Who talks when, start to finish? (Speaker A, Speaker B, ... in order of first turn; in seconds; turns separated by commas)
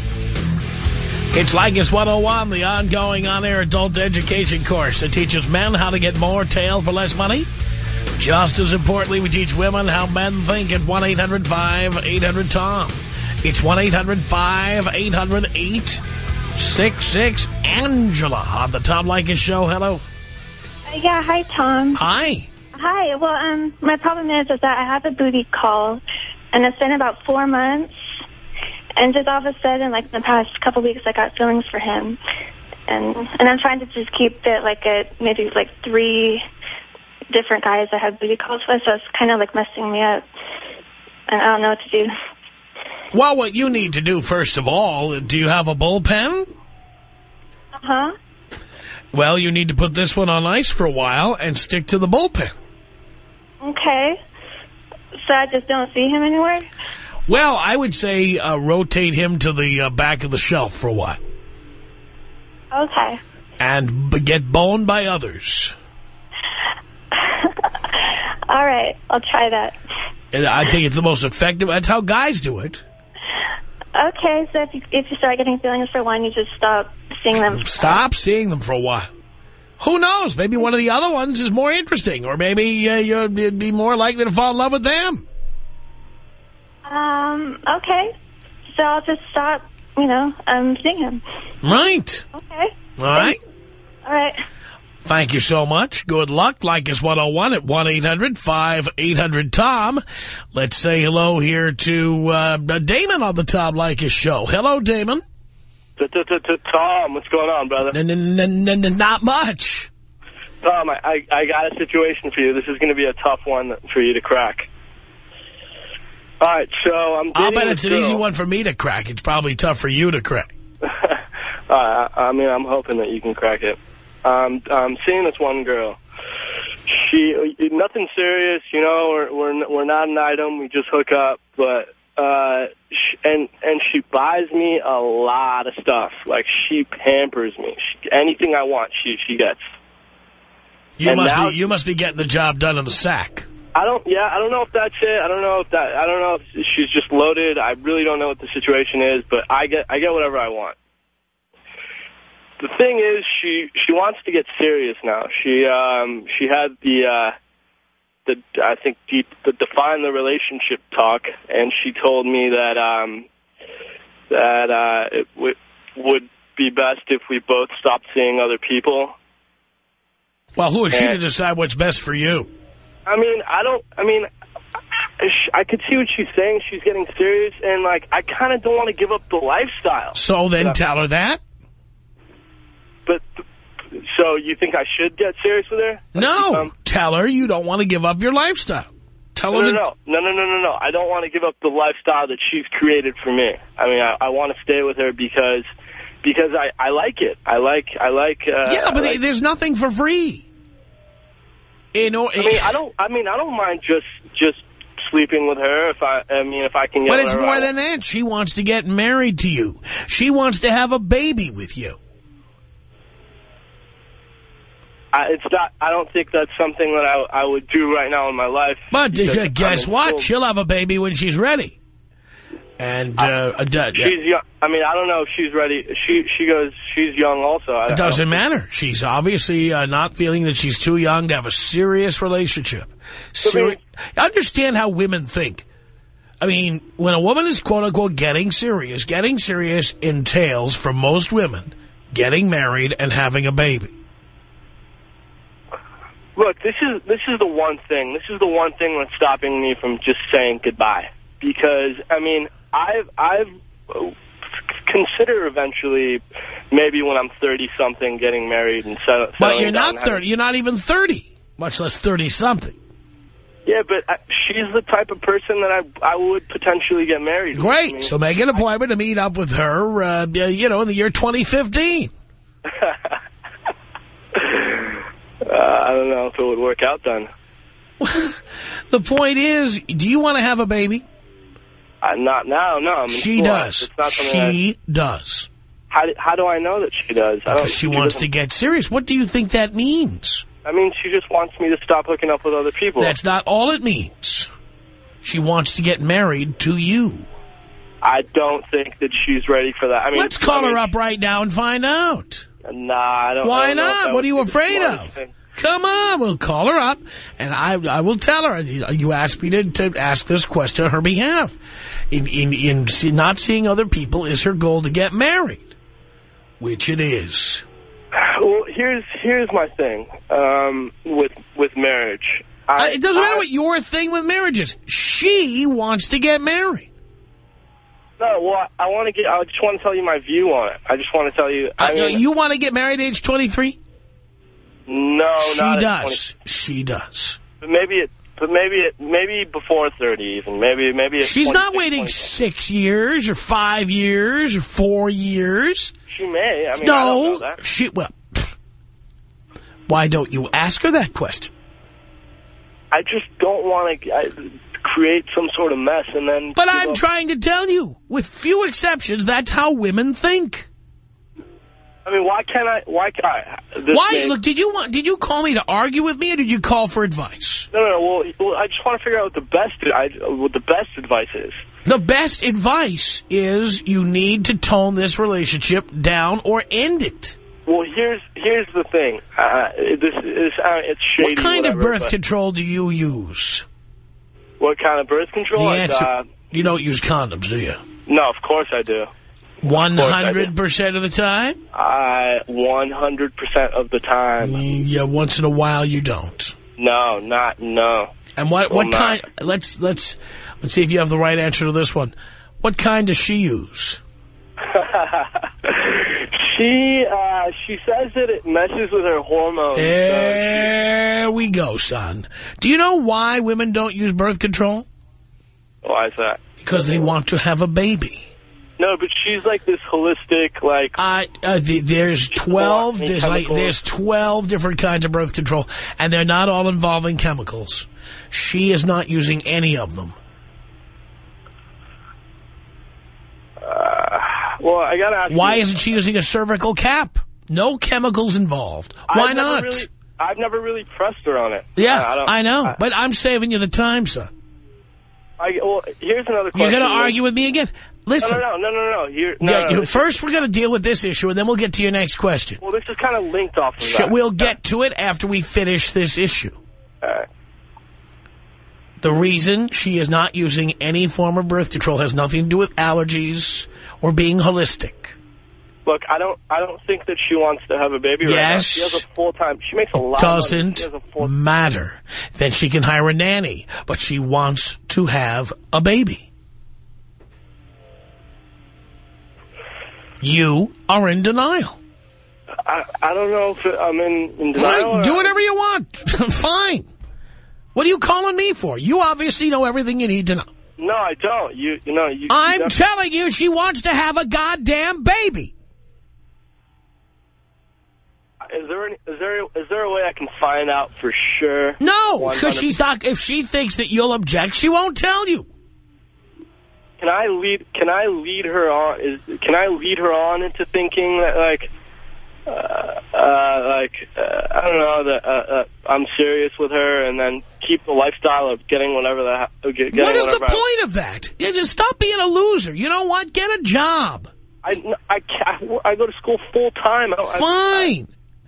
Speaker A: 1.3-7.5, Speaker A: 8.2-16.0, Speaker A: 16.6-20.0, Speaker B: 20.9-22.0, Speaker A: 21.9-22.5, Speaker B: 22.7-26.0, Speaker B: 26.5-28.2, Speaker B: 29.0-32.2, Speaker B: 32.9-36.4, Speaker B: 37.3-40.2, Speaker B: 41.3-42.1, Speaker A: 43.1-46.5, Speaker B: 47.8-48.1, Speaker A: 49.1-52.5, Speaker B: 53.6-54.2, Speaker B: 55.2-56.7, Speaker A: 57.3-61.2, Speaker B: 62.7-63.2, Speaker A: 63.6-65.7, Speaker B: 68.5-69.7, Speaker A: 70.3-72.8, Speaker B: 74.0-78.0, Speaker A: 77.5-79.1, Speaker A: 79.8-85.2, Speaker B: 86.9-88.1, Speaker B: 88.7-91.2, Speaker A: 91.6-92.2, Speaker B: 92.3-93.4, Speaker A: 93.0-93.4, Speaker B: 94.0-94.4, Speaker A: 95.0-100.0, Speaker A: 100.5-105.2, Speaker C: 106.0-108.0, Speaker A: 107.9-109.9, Speaker C: 110.6-114.7, Speaker C: 116.4-118.2, Speaker A: 117.3-120.5, Speaker C: 120.8-126.0, Speaker C: 126.9-139.6, Speaker A: 141.0-143.5, Speaker C: 141.1-141.6, Speaker C: 143.7-150.8, Speaker C: 152.6-157.3, Speaker C: 158.2-163.3, Speaker C: 164.3-169.1, Speaker A: 170.6-172.5, Speaker C: 170.9-171.2, Speaker C: 173.1-174.3, Speaker C: 175.2-180.8, Speaker A: 180.1-181.4, Speaker C: 183.9-186.7, Speaker A: 186.1-189.8, Speaker C: 189.5-195.7, Speaker C: 196.2-199.2, Speaker A: 198.6-200.4, Speaker A: 201.9-202.7, Speaker C: 202.3-207.7, Speaker A: 207.1-212.0, Speaker C: 215.1-220.3, Speaker A: 218.9-221.8, Speaker A: 222.8-224.1, Speaker C: 223.9-228.4, Speaker A: 227.9-235.7, Speaker C: 233.4-233.8, Speaker A: 236.4-243.9, Speaker C: 246.3-254.1, Speaker C: 254.8-260.2, Speaker A: 259.4-262.8, Speaker C: 263.6-268.1, Speaker A: 267.5-272.1, Speaker C: 272.7-273.1, Speaker C: 274.3-277.3, Speaker A: 278.0-278.4, Speaker A: 278.9-281.0, Speaker C: 282.0-284.6, Speaker A: 283.1-285.5, Speaker C: 285.9-288.2, Speaker A: 287.5-290.4, Speaker C: 290.6-293.1, Speaker A: 293.0-294.5, Speaker A: 295.2-297.3, Speaker C: 298.0-300.9, Speaker A: 300.1-302.4, Speaker C: 302.6-305.3, Speaker A: 303.4-311.6, Speaker A: 312.1-315.7, Speaker A: 316.6-317.6, Speaker C: 318.1-323.4, Speaker A: 322.8-326.9, Speaker C: 328.2-332.2, Speaker A: 331.8-333.8, Speaker C: 334.9-336.2, Speaker A: 335.4-337.4, Speaker C: 337.6-342.3, Speaker A: 341.2-345.9, Speaker C: 346.1-347.6, Speaker A: 346.8-348.5, Speaker A: 349.9-351.5, Speaker C: 352.9-357.0, Speaker A: 356.6-360.7, Speaker C: 362.1-364.4, Speaker A: 363.9-367.7, Speaker C: 367.7-371.6, Speaker A: 371.8-377.4, Speaker C: 377.7-382.1, Speaker A: 381.2-383.6, Speaker C: 384.6-386.2, Speaker A: 385.6-387.8, Speaker C: 388.1-389.1, Speaker A: 389.6-391.6, Speaker C: 389.7-390.5, Speaker C: 391.7-394.6, Speaker A: 394.4-396.6, Speaker C: 396.8-398.1, Speaker A: 398.4-404.0, Speaker C: 398.7-399.2, Speaker C: 404.6-410.7, Speaker A: 409.7-414.9, Speaker C: 415.8-416.4, Speaker A: 416.6-418.3, Speaker C: 418.8-421.0, Speaker A: 421.0-430.1, Speaker C: 422.4-423.8, Speaker C: 433.6-435.8, Speaker A: 435.3-439.9, Speaker C: 439.1-442.8, Speaker A: 441.8-444.3, Speaker C: 445.4-447.1, Speaker A: 446.5-448.4, Speaker C: 448.2-450.1, Speaker A: 449.4-452.6, Speaker C: 452.6-454.5, Speaker A: 453.8-456.6, Speaker A: 459.0-465.1, Speaker C: 465.9-471.3, Speaker A: 468.2-469.0, Speaker A: 470.1-476.3, Speaker A: 480.2-481.8, Speaker C: 482.6-485.3, Speaker A: 484.6-486.9, Speaker A: 487.7-490.5, Speaker C: 490.8-492.7, Speaker A: 492.3-495.5, Speaker C: 498.4-502.7, Speaker A: 501.8-505.5, Speaker C: 507.0-511.7, Speaker C: 512.5-520.6, Speaker A: 519.9-524.3, Speaker C: 524.6-527.9, Speaker A: 527.2-528.1